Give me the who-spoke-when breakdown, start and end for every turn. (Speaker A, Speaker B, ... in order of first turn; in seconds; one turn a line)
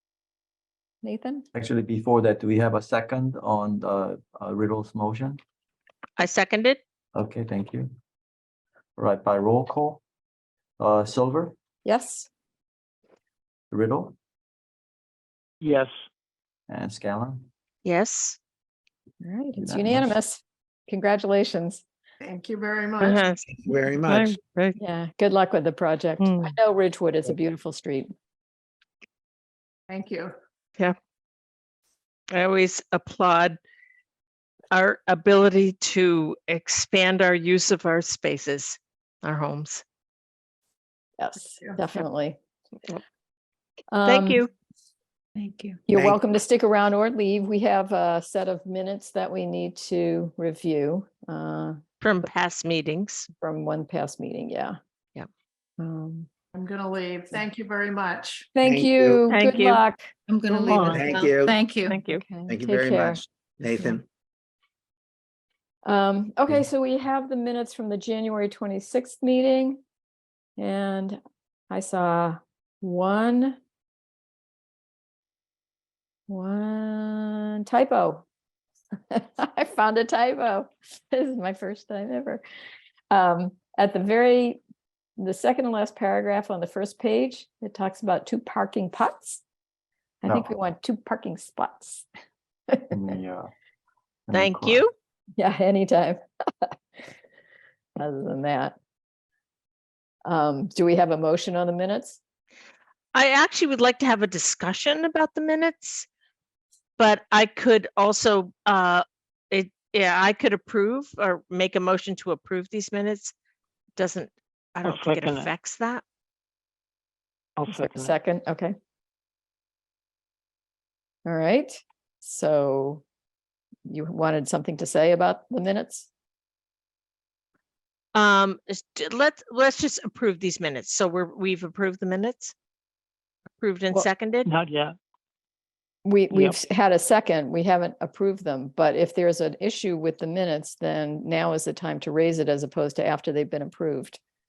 Speaker A: 1.0-1.5
Speaker B: 1.5-5.4
Speaker C: 6.2-6.8
Speaker B: 7.1-7.9
Speaker B: 9.0-10.0
Speaker B: 10.8-11.6
Speaker A: 11.8-12.3
Speaker B: 13.7-14.2
Speaker D: 15.6-15.9
Speaker B: 16.7-17.5
Speaker C: 17.9-18.4
Speaker A: 19.2-21.8
Speaker B: 19.6-20.1
Speaker E: 22.2-23.2
Speaker C: 23.0-24.8
Speaker F: 23.7-24.4
Speaker A: 24.8-28.1
Speaker C: 26.2-26.5
Speaker E: 29.9-30.3
Speaker C: 32.3-33.6
Speaker C: 34.7-39.8
Speaker A: 41.2-42.4
Speaker A: 43.9-44.4
Speaker C: 44.0-44.5
Speaker E: 45.4-45.8
Speaker A: 45.9-51.8
Speaker C: 52.0-53.3
Speaker A: 53.4-54.8
Speaker A: 55.8-56.3
Speaker E: 56.5-58.5
Speaker A: 58.5-61.0
Speaker F: 58.6-59.3
Speaker C: 59.3-59.8
Speaker E: 60.3-62.0
Speaker F: 60.9-61.6
Speaker C: 61.9-62.2
Speaker A: 62.0-63.2
Speaker F: 62.5-64.0
Speaker A: 65.8-69.8
Speaker A: 70.6-71.2
Speaker A: 71.7-73.6
Speaker A: 76.3-78.2
Speaker A: 79.1-82.4
Speaker A: 83.1-84.6
Speaker A: 85.2-89.4
Speaker A: 90.2-92.0
Speaker B: 92.9-93.5
Speaker B: 94.3-94.8
Speaker C: 94.3-94.9
Speaker A: 95.4-96.7
Speaker A: 98.0-98.8
Speaker A: 100.2-102.2
Speaker C: 103.1-106.1
Speaker C: 107.0-113.3
Speaker C: 114.0-116.0
Speaker D: 114.8-115.5
Speaker D: 117.6-118.1
Speaker A: 117.7-118.7
Speaker A: 121.2-123.0
Speaker A: 123.9-126.1
Speaker C: 128.2-132.5
Speaker C: 133.6-134.5
Speaker D: 134.5-135.0
Speaker A: 136.1-144.2